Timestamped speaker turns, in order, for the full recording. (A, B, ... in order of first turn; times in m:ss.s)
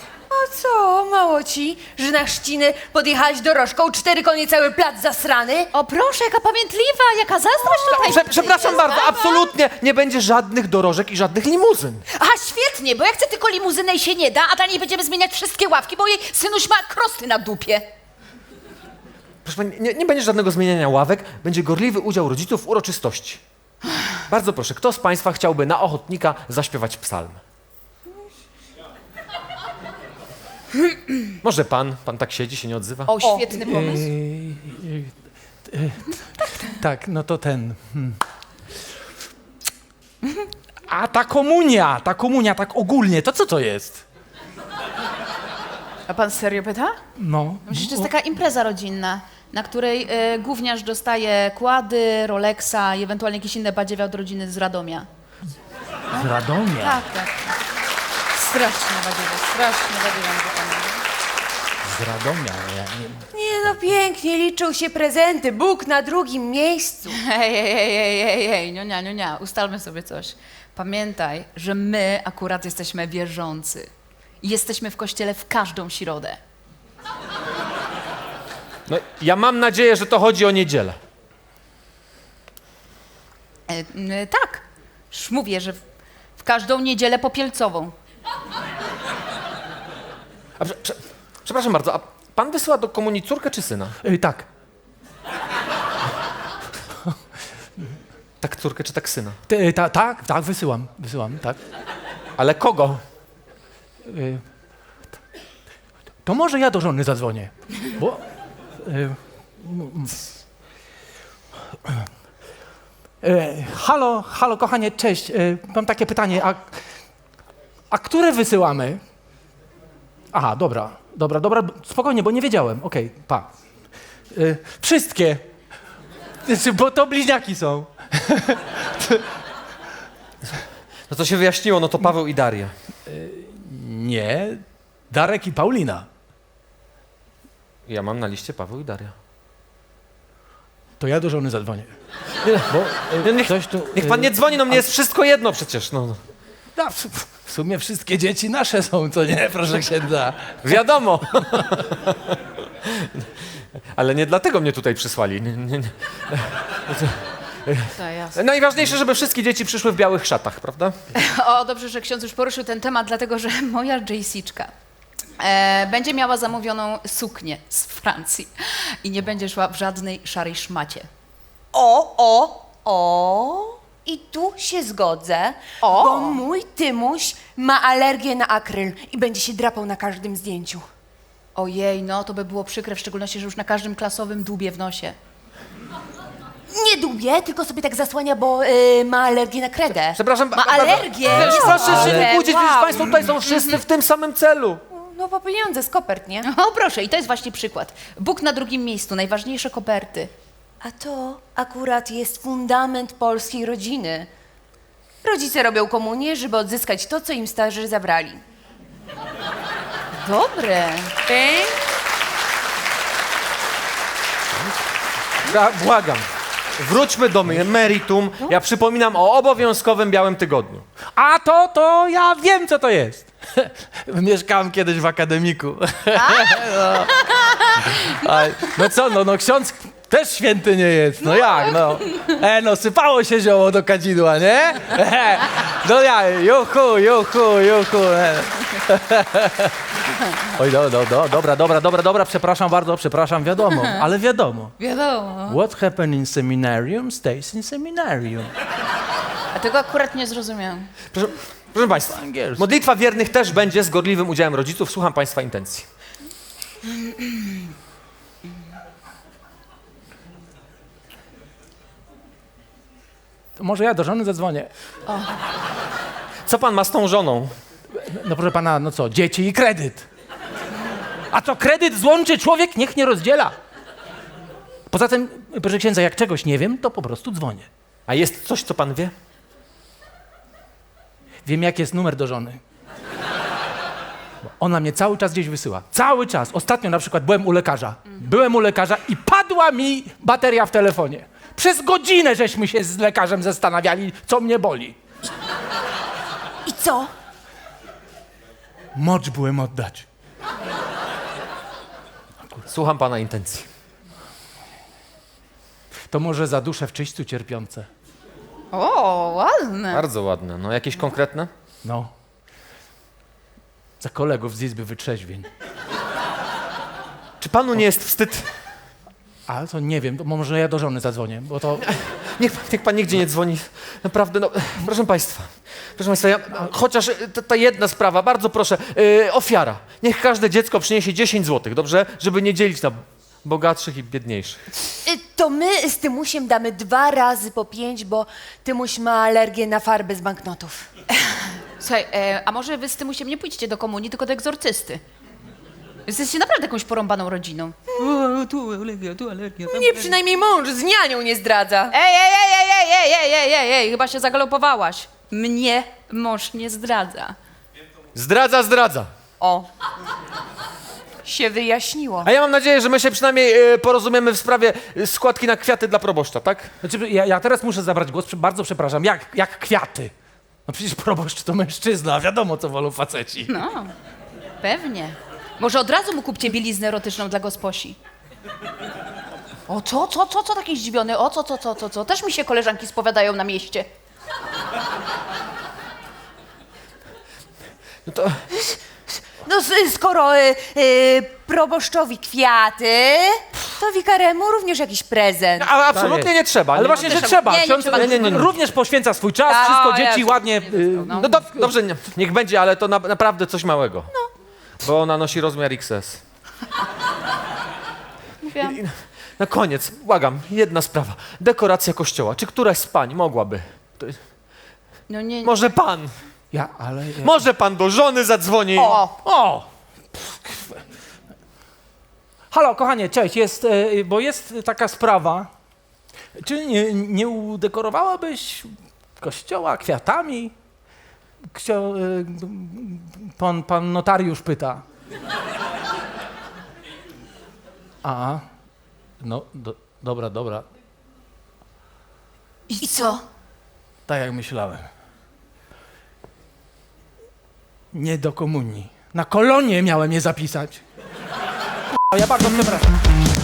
0:00.3-0:05.7 A
0:05.7-0:09.5 B
0:07.9-0:12.0 C
0:12.1-0:17.9 B
0:19.4-0:23.4 C
0:24.3-0:27.4 C
0:31.4-0:33.1 C
0:33.1-0:34.1 B
0:33.2-0:33.6 A
0:33.6-0:35.1 D
0:35.7-0:38.2 D
0:40.9-0:44.0 D
0:46.1-0:47.0 B
0:47.2-0:48.1 D
0:47.6-0:55.1 B
0:56.1-0:57.0 D
0:56.1-0:57.4 B
0:58.3-1:01.0 B
1:01.8-1:03.8 D
1:03.3-1:07.2 A
1:07.1-1:13.9 B
1:14.4-1:16.4 B
1:18.9-1:21.0 C
1:23.7-1:25.8 B
1:26.4-1:27.9 B
1:30.6-1:34.0 C
1:34.0-1:34.5 D
1:38.4-1:39.4 C
1:39.5-1:41.6 D
1:42.4-1:43.0 C
1:44.0-1:44.4 D
1:46.2-1:48.2 D
1:48.8-1:50.2 D
1:53.2-1:56.8 D
1:57.9-1:59.0 D
2:00.3-2:03.5 D
2:04.3-2:05.4 D
2:06.4-2:09.2 D
2:11.1-2:12.7 C
2:13.1-2:16.1 D
2:17.9-2:19.1 C
2:21.0-2:21.9 D
2:22.4-2:26.2 C
2:22.7-2:24.8 D
2:26.8-2:31.4 D
2:30.6-2:33.3 C
2:33.9-2:41.0 C
2:38.0-2:38.4 B
2:41.1-2:44.7 B
2:45.4-2:51.1 B
2:51.7-3:00.8 A
2:55.8-2:56.4 B
3:01.6-3:05.2 B
3:06.7-3:13.0 A
3:10.1-3:14.8 C
3:10.7-3:13.6 B
3:14.9-3:16.5 A
3:16.4-3:20.3 B
3:20.8-3:24.3 A
3:25.2-3:28.4 A
3:30.2-3:31.2 B
3:31.3-3:31.7 A
3:35.4-3:36.3 C
3:36.8-3:40.8 C
3:41.1-3:59.7 D
3:46.3-3:46.6 B
4:00.5-4:04.7 D
4:03.7-4:04.0 B
4:04.8-4:05.6 B
4:05.4-4:08.5 D
4:09.5-4:10.9 B
4:11.1-4:15.9 C
4:11.9-4:12.7 D
4:23.6-4:24.7 D
4:26.4-4:27.5 C
4:27.9-4:30.0 D
4:31.3-4:33.5 D
4:34.9-4:37.7 D
4:38.1-4:39.1 C
4:41.4-4:42.6 D
4:44.6-4:55.0 D
4:56.6-4:57.1 A
4:59.0-5:00.0 D
5:02.6-5:03.7 C
5:06.1-5:07.9 D
5:08.7-5:10.0 B
5:09.9-5:11.5 C
5:11.8-5:12.1 D
5:14.0-5:15.5 D
5:17.4-5:18.5 C
5:19.5-5:21.8 D
5:21.8-5:34.6 C
5:35.0-5:40.9 A
5:41.8-5:45.0 B
5:46.0-5:50.1 B
5:49.7-5:51.9 A
5:51.9-5:57.3 B
5:58.1-5:59.1 C
5:59.4-5:59.7 A
6:01.2-6:02.3 A
6:02.2-6:06.7 C
6:06.8-6:10.1 D
6:10.6-6:13.5 D
6:13.5-6:13.9 B
6:14.6-6:18.0 B
6:19.7-6:23.9 B
6:28.0-6:28.4 C
6:29.3-6:35.7 A
6:35.6-6:38.5 C
6:35.9-6:41.7 D
6:36.8-6:38.5 B
6:39.4-6:41.3 B
6:41.2-6:44.1 C
6:44.8-6:46.2 C
6:48.4-6:48.8 B
6:48.6-6:54.2 C
6:55.1-6:55.6 B
6:55.4-6:56.1 C
6:56.5-6:57.4 D
6:57.2-6:59.0 C
6:58.8-6:59.1 B
6:59.2-7:00.8 D
7:02.5-7:05.5 D
7:06.4-7:10.5 D
7:11.5-7:14.8 D
7:18.0-7:18.4 D
7:19.2-7:20.6 D
7:22.7-7:23.2 B
7:22.8-7:23.1 A
7:24.0-7:24.9 D
7:27.9-7:30.8 D
7:31.9-7:33.0 D